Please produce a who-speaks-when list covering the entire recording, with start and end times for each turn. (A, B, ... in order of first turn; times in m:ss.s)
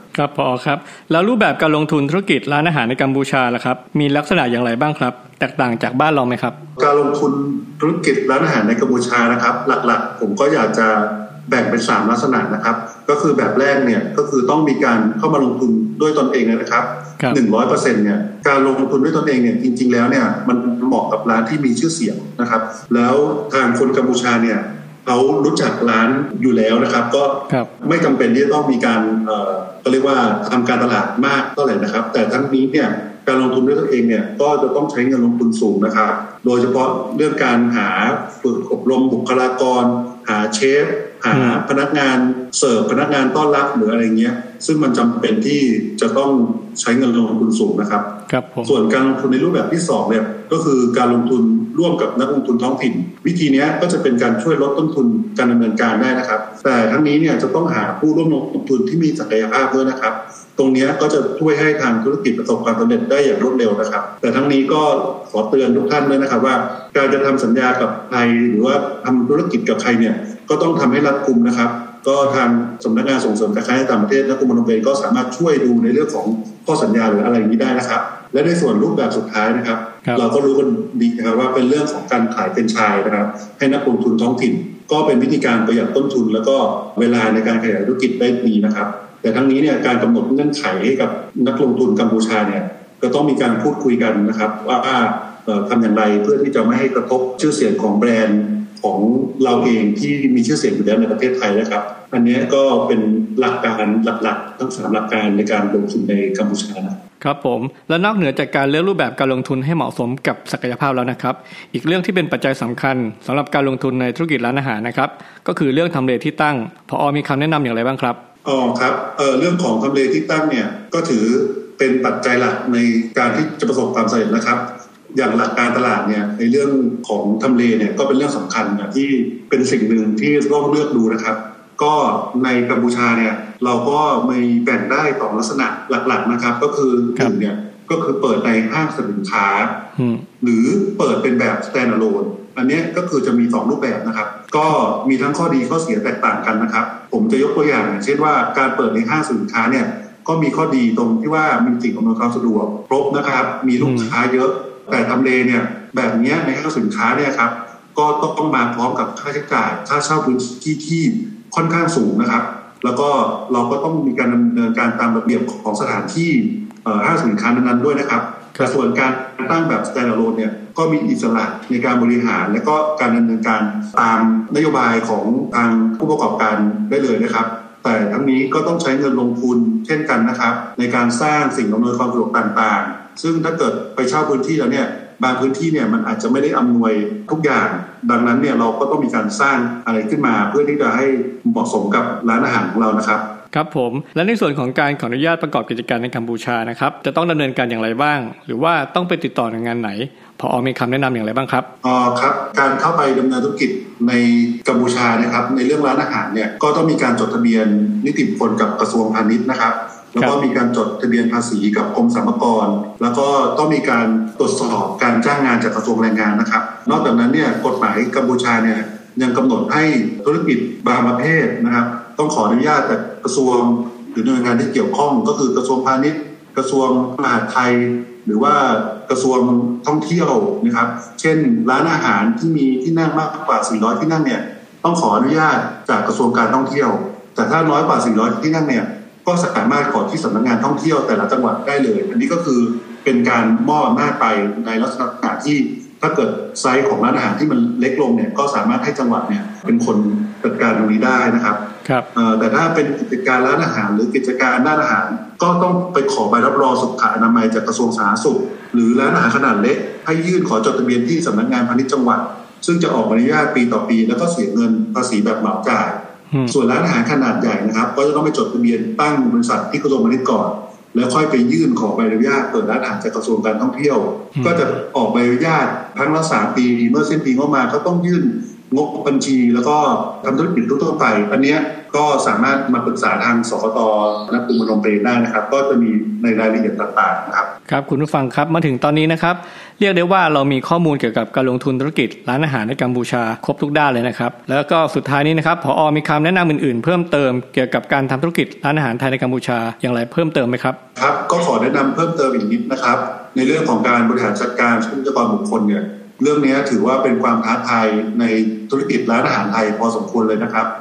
0:00.1-0:06.6 A
0:06.8-0:48.1 B
0:41.3-0:41.6 A
0:48.3-0:48.7 A
0:48.6-1:47.0 B
1:47.2-1:58.2 A
1:58.4-2:19.8 B
2:20.0-2:20.2 A
2:20.4-3:13.2 B
2:33.8-2:34.1 A
3:13.5-3:21.7 A
3:21.8-4:11.6 B
4:12.1-4:47.5 B
4:47.7-5:00.8 A
5:01.0-5:10.7 B